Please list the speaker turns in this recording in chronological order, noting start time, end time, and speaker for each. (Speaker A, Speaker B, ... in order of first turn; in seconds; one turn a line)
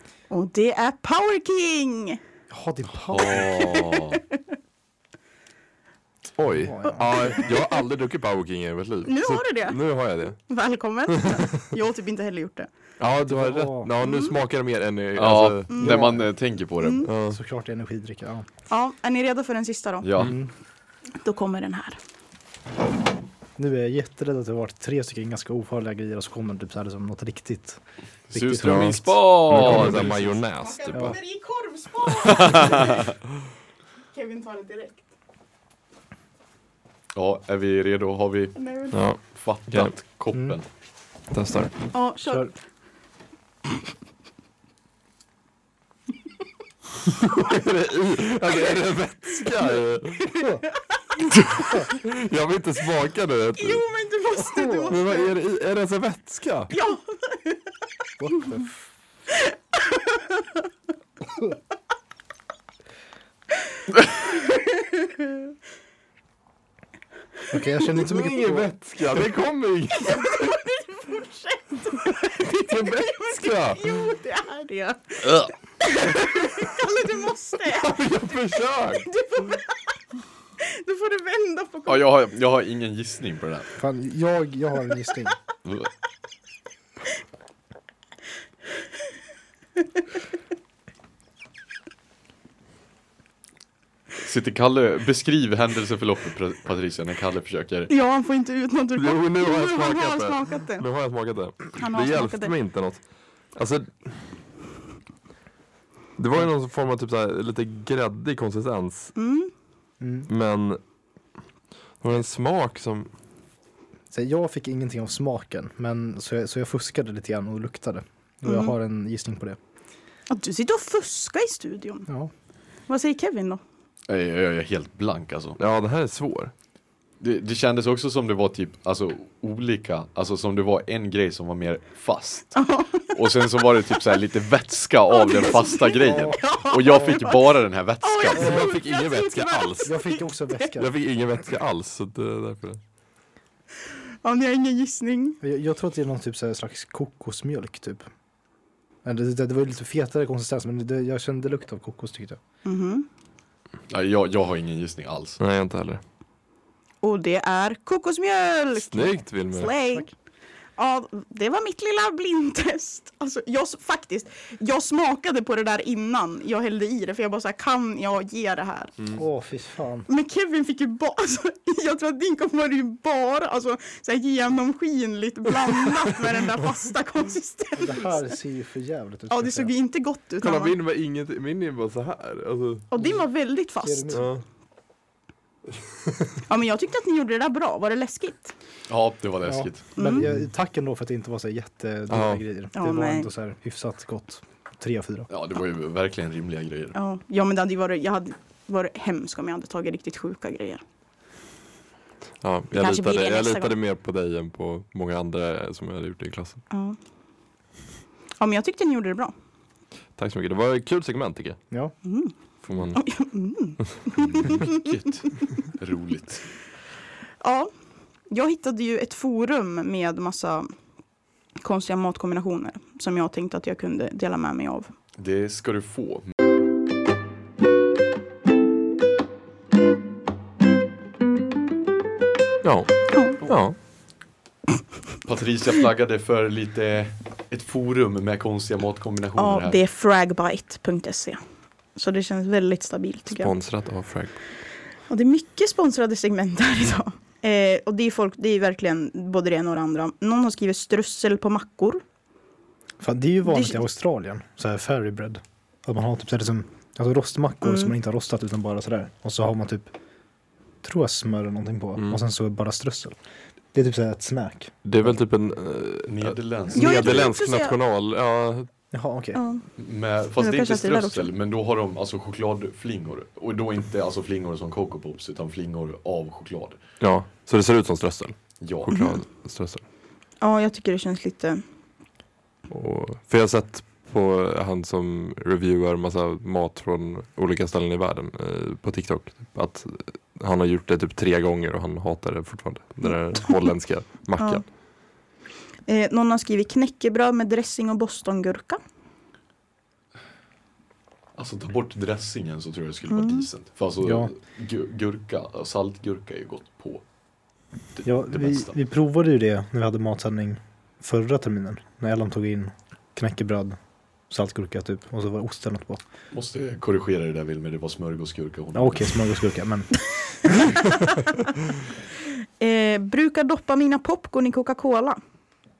Speaker A: 0.3-2.2
Speaker B: 2.5-3.5
Speaker C: 3.1-4.2
Speaker A: 3.4-4.4
Speaker D: 6.4-10.4
Speaker B: 6.6-7.5
Speaker A: 6.8-7.6
Speaker A: 9.1-9.8
Speaker A: 10.4-12.7
Speaker D: 11.1-11.4
Speaker D: 13.0-15.7
Speaker B: 13.3-13.9
Speaker A: 14.0-14.3
Speaker C: 15.2-17.1
Speaker A: 15.7-16.0
Speaker B: 15.8-16.3
Speaker A: 16.8-17.1
Speaker D: 17.0-17.4
Speaker B: 17.3-18.5
Speaker A: 18.7-20.1
Speaker C: 20.0-20.3
Speaker B: 20.2-20.5
Speaker A: 21.2-22.0
Speaker B: 23.6-27.8
Speaker B: 28.3-29.9
Speaker C: 28.3-30.4
Speaker D: 28.6-31.2
Speaker A: 30.6-33.0
Speaker C: 32.2-33.1
Speaker A: 34.1-35.0
Speaker C: 37.1-38.6
Speaker A: 38.5-39.0
Speaker D: 38.9-39.9
Speaker C: 39.2-40.6
Speaker B: 40.3-40.6
Speaker D: 41.3-41.7
Speaker A: 41.9-42.6
Speaker D: 47.1-50.4
Speaker D: 51.6-53.8
Speaker A: 53.5-55.3
Speaker B: 54.4-55.0
Speaker D: 54.9-56.7
Speaker A: 56.7-57.6
Speaker B: 58.2-58.7
Speaker A: 59.9-60.3
Speaker A: 64.6-65.1
Speaker B: 67.5-68.7
Speaker D: 67.9-70.6
Speaker A: 70.1-78.0
Speaker D: 72.4-74.0
Speaker C: 75.2-75.5
Speaker D: 77.7-79.1
Speaker A: 79.0-79.7
Speaker A: 80.6-82.1
Speaker C: 81.9-83.7
Speaker B: 83.8-85.3
Speaker C: 94.2-97.9
Speaker A: 97.9-100.8
Speaker D: 99.0-104.2
Speaker A: 101.7-102.5
Speaker D: 106.2-109.1
Speaker A: 109.2-109.5
Speaker B: 110.0-110.3
Speaker D: 110.3-110.8
Speaker D: 112.0-113.1
Speaker B: 114.1-119.6
Speaker A: 118.5-118.7
Speaker A: 120.3-122.1
Speaker A: 122.9-123.6
Speaker C: 124.1-125.6
Speaker D: 125.6-126.5
Speaker C: 127.2-138.6
Speaker A: 132.5-133.6
Speaker A: 135.1-140.7
Speaker B: 136.0-136.4
Speaker D: 138.3-139.9
Speaker B: 139.8-140.9
Speaker D: 140.8-142.8
Speaker A: 144.2-145.4
Speaker B: 145.4-148.1
Speaker B: 149.0-152.4
Speaker A: 152.6-153.1
Speaker C: 153.9-155.4
Speaker D: 155.4-156.0
Speaker A: 157.0-160.1
Speaker D: 158.9-159.7
Speaker A: 160.8-168.9
Speaker B: 169.1-170.1
Speaker A: 170.1-178.3
Speaker B: 177.8-179.7
Speaker A: 179.3-180.8
Speaker D: 180.4-182.8
Speaker A: 182.9-184.2
Speaker B: 183.8-184.3
Speaker D: 184.1-184.4
Speaker A: 186.5-188.5
Speaker C: 188.9-189.9
Speaker B: 189.4-195.3
Speaker A: 189.9-190.3
Speaker D: 192.1-192.4
Speaker A: 192.7-193.3
Speaker C: 195.3-196.9
Speaker A: 196.9-200.8
Speaker D: 202.4-206.6
Speaker A: 202.7-203.7
Speaker A: 206.7-207.0
Speaker A: 208.4-209.3
Speaker D: 210.2-211.6
Speaker A: 212.0-212.3
Speaker D: 212.6-213.1
Speaker A: 212.9-214.7
Speaker C: 214.2-216.4
Speaker A: 217.4-217.7
Speaker A: 218.3-220.7
Speaker A: 221.6-224.9
Speaker C: 225.2-226.3
Speaker D: 232.6-233.8
Speaker A: 233.1-233.4
Speaker C: 235.2-239.8
Speaker A: 239.4-241.4
Speaker A: 241.9-243.5
Speaker D: 243.3-244.4
Speaker A: 245.1-252.0
Speaker B: 253.0-259.9
Speaker A: 253.4-253.8
Speaker A: 257.6-257.9
Speaker B: 260.8-263.2
Speaker B: 263.7-264.7
Speaker D: 264.8-268.7
Speaker C: 266.1-267.3
Speaker A: 266.7-267.8
Speaker B: 268.9-269.4
Speaker A: 269.3-269.6
Speaker C: 269.8-276.8
Speaker A: 270.4-271.3
Speaker D: 277.0-279.8
Speaker C: 278.6-278.9
Speaker A: 278.9-279.2
Speaker A: 280.4-281.6
Speaker D: 282.7-294.6
Speaker A: 293.0-293.7
Speaker A: 294.4-294.6
Speaker A: 295.9-298.8
Speaker C: 301.3-307.0
Speaker A: 303.1-303.5
Speaker B: 304.0-304.3
Speaker C: 307.9-308.7
Speaker B: 308.0-316.0
Speaker C: 316.3-319.2
Speaker B: 318.7-320.6
Speaker A: 322.6-325.2